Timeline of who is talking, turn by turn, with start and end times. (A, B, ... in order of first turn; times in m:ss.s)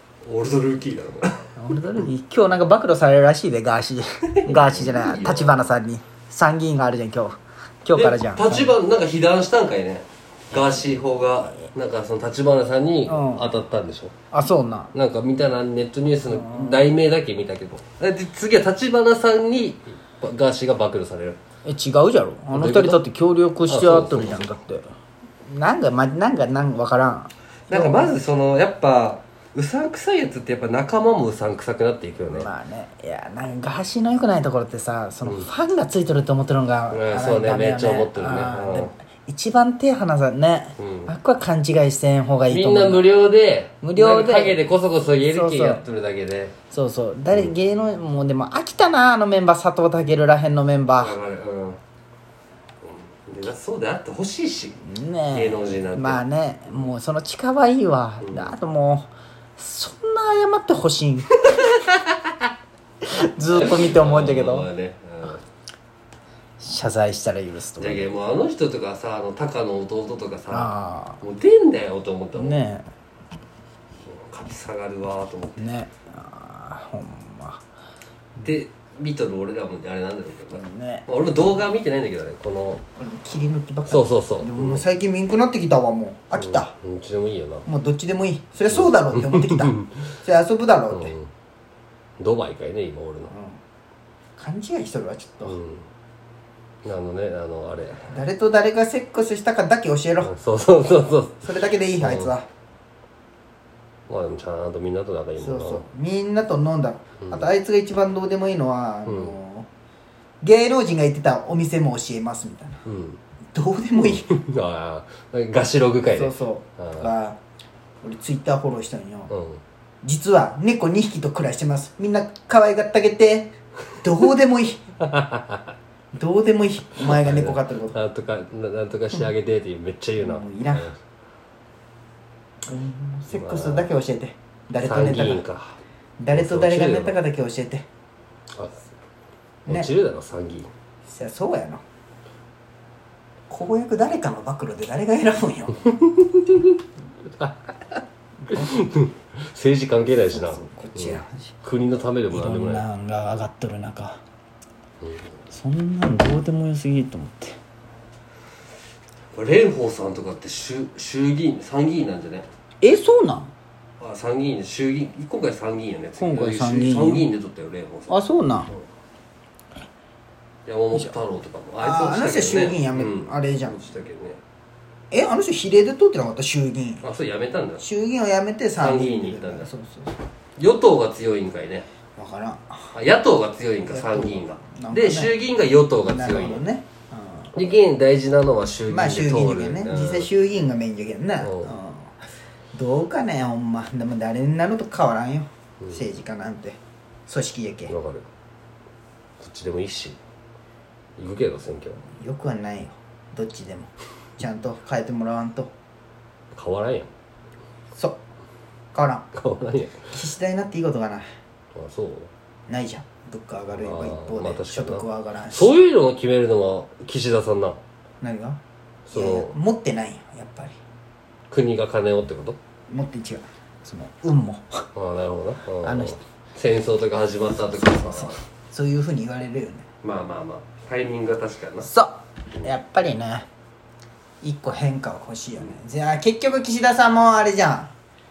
0:00.2-0:01.6 A
0:01.6-0:08.8 B
0:04.3-0:05.7 A
0:07.9-0:14.2 A
0:13.1-0:13.5 B
0:14.3-0:14.9 B
0:14.9-0:21.4 A
0:16.3-0:16.9 B
0:21.6-0:24.9 B
0:22.5-0:23.0 A
0:23.7-0:24.6 A
0:25.5-0:28.2 B
0:27.7-0:32.5 A
0:32.3-0:43.1 B
0:36.9-0:38.9 A
0:40.8-0:41.1 A
0:42.5-0:46.6 A
0:43.8-0:44.6 B
0:45.3-0:45.8 B
0:46.7-0:51.2 B
0:51.0-0:51.8 A
0:52.8-0:56.2 A
0:54.8-1:01.4 B
0:58.2-0:58.6 A
1:01.5-1:02.1 A
1:03.0-1:04.7 B
1:03.5-1:05.4 A
1:06.6-1:08.1 B
1:07.8-1:12.6 A
1:10.5-1:11.2 B
1:12.3-1:12.9 B
1:14.0-1:15.6 A
1:15.6-1:17.6 B
1:18.4-1:22.8 A
1:20.5-1:21.1 B
1:23.0-1:26.8 B
1:23.9-1:24.8 A
1:26.4-1:27.7 A
1:27.7-1:31.1 B
1:28.7-1:30.0 A
1:30.9-1:31.3 A
1:32.2-1:33.3 A
1:33.3-1:33.6 B
1:34.4-1:35.6 B
1:35.4-1:35.9 A
1:36.8-1:38.2 A
1:38.1-1:40.3 B
1:40.2-1:42.3 A
1:41.4-1:42.5 B
1:44.1-1:45.9 A
1:45.4-1:49.7 B
1:49.1-1:49.4 A
1:50.4-1:52.8 B
1:52.9-1:53.2 A
1:53.5-1:54.4 B
1:54.0-1:57.1 A
1:56.1-1:57.4 B
1:58.0-1:59.3 B
1:59.3-1:59.6 A
2:00.0-2:04.8 B
2:05.0-2:05.7 A
2:06.1-2:08.0 B
2:07.0-2:11.0 A
2:10.2-2:10.9 B
2:12.7-2:15.4 B
2:13.3-2:13.9 A
2:14.8-2:15.8 A
2:16.2-2:17.9 B
2:16.3-2:17.2 A
2:18.6-2:18.9 A
2:19.7-2:19.9 B
2:19.7-2:20.7 A
2:21.0-2:21.8 B
2:23.5-2:26.1 B
2:26.0-2:26.8 A
2:27.4-2:32.8 A
2:28.5-2:28.8 B
2:30.3-2:31.6 B
2:32.3-2:34.2 B
2:35.5-2:37.6 B
2:39.3-2:42.5 A
2:42.8-2:43.5 B
2:44.0-2:48.2 A
2:46.2-2:47.3 B
2:48.1-2:48.7 B
2:50.7-2:54.4 A
2:51.8-2:53.9 B
2:55.1-2:57.0 B
2:57.0-2:57.8 A
2:57.8-3:00.2 B
2:58.8-2:59.7 A
3:00.6-3:01.9 A
3:02.2-3:02.9 B
3:02.9-3:06.7 A
3:03.8-3:05.3 B
3:06.0-3:07.5 B
3:07.5-3:10.3 A
3:08.9-3:12.2 B
3:11.4-3:11.7 A
3:12.7-3:18.0 B
3:17.9-3:18.3 A
3:19.4-3:20.2 A
3:21.2-3:22.1 A
3:22.2-3:25.7 B
3:26.5-3:27.1 A
3:28.9-3:29.3 B
3:29.3-3:30.1 A
3:30.1-3:31.3 B
3:31.8-3:32.3 A
3:32.7-3:35.8 B
3:33.7-3:37.8 A
3:38.2-3:38.6 B
3:39.1-3:39.6 A
3:39.1-3:40.8 B
3:41.5-3:42.6 A
3:42.9-3:44.9 B
3:45.0-3:48.4 A
3:45.8-3:46.2 B
3:47.7-3:49.9 B
3:50.0-3:51.9 A
3:51.8-3:53.5 B
3:54.4-3:57.9 B